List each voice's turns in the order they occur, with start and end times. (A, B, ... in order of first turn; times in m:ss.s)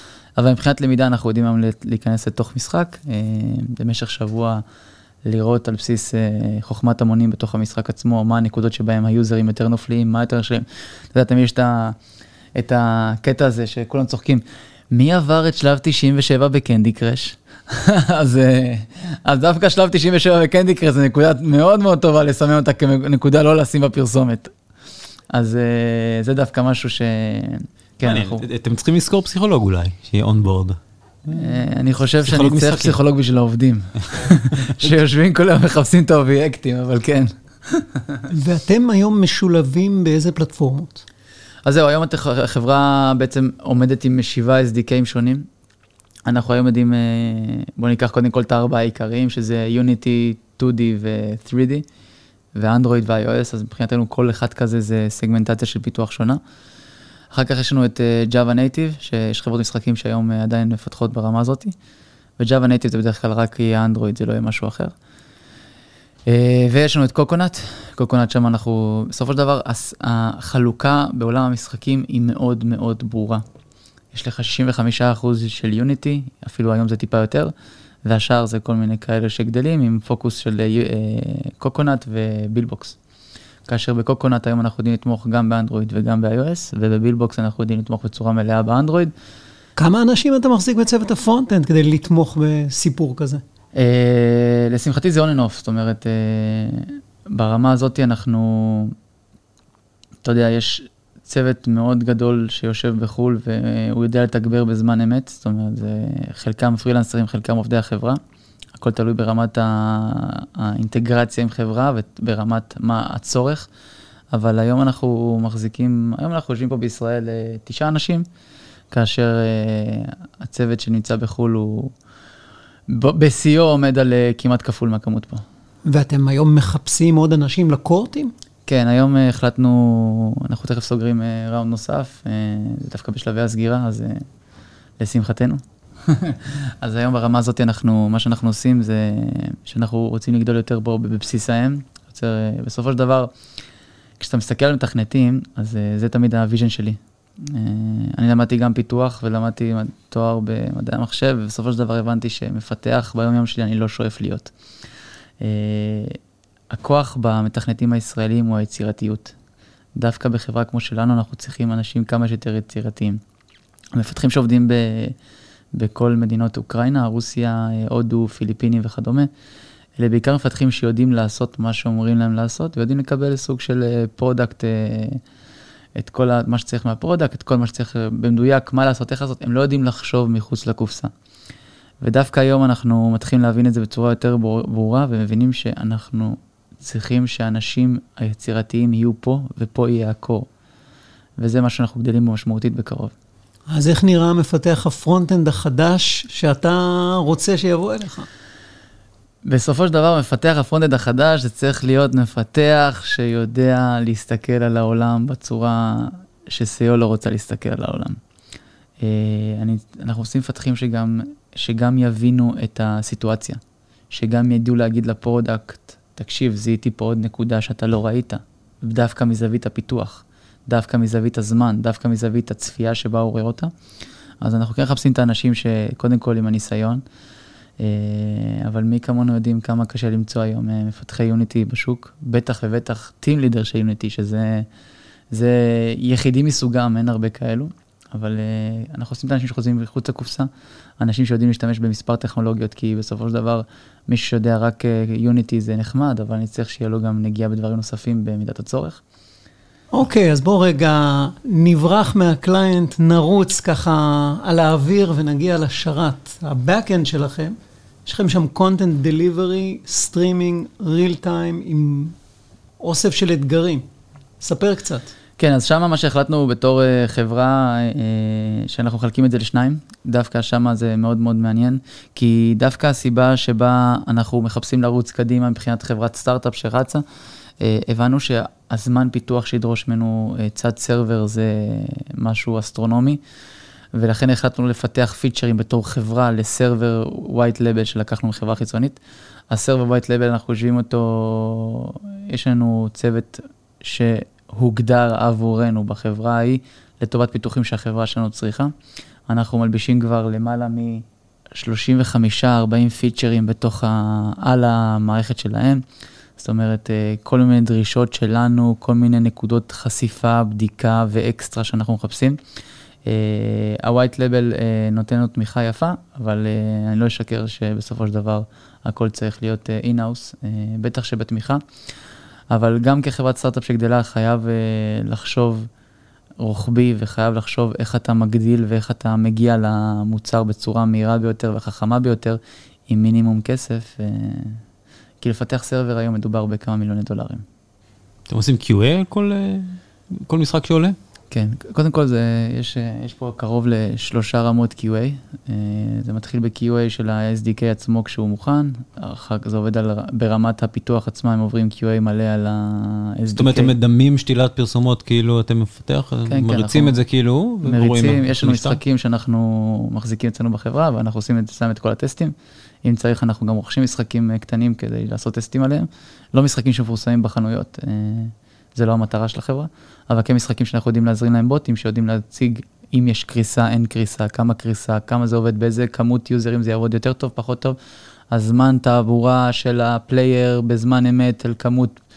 0:00.4-0:04.6 A
0:05.2-0:12.0 A
0:12.6-0:24.5 A
0:25.3-0:28.4 A
0:28.0-0:31.5 B
0:31.3-0:38.2 A
0:32.2-0:33.0 B
0:38.3-0:41.0 C
0:41.6-0:45.5 A
0:46.2-0:51.8 A
0:52.5-0:56.4 A
0:57.3-1:01.7 A
1:02.4-1:04.9 A
1:06.3-1:13.4 A
1:14.1-1:17.5 A
1:18.0-1:23.0 A
1:23.7-1:29.1 A
1:29.8-1:33.4 C
1:33.8-1:38.9 A
1:40.2-1:48.2 A
1:48.8-1:53.7 A
1:54.3-1:58.2 A
1:58.9-2:01.9 A
2:02.9-2:05.4 A
2:05.8-2:08.3 C
2:08.7-2:14.2 A
2:15.0-2:23.3 A
2:24.2-2:34.5 A
2:35.4-2:36.2 A
2:36.7-2:39.3 A
2:40.0-2:43.2 A
2:43.9-2:45.1 A
2:45.7-2:49.3 A
2:50.0-2:55.2 A
2:56.0-3:01.1 A
3:02.0-3:10.5 A
3:11.4-3:13.1 A
3:13.7-3:18.3 C
3:19.4-3:28.2 A
3:29.0-3:33.6 A
3:34.1-3:43.7 A
3:44.4-3:47.0 A
3:47.8-3:54.7 A
3:55.3-4:00.5 A
4:01.0-4:09.0 A
4:09.9-4:22.1 C
4:22.8-4:23.8 C
4:24.4-4:25.1 C
4:25.4-4:37.0 A
4:37.6-4:43.2 A
4:43.9-4:49.0 A
4:49.5-4:58.7 A
4:59.3-5:01.0 A
5:01.6-5:05.8 A
5:06.4-5:12.4 A
5:13.0-5:21.6 A
5:22.5-5:25.7 A
5:26.4-5:34.6 A
5:35.2-5:37.4 A
5:38.3-5:41.0 B
5:41.3-5:53.7 A
5:53.3-5:58.8 B
5:56.3-5:57.0 A
5:57.6-6:17.8 A
6:18.3-6:22.0 A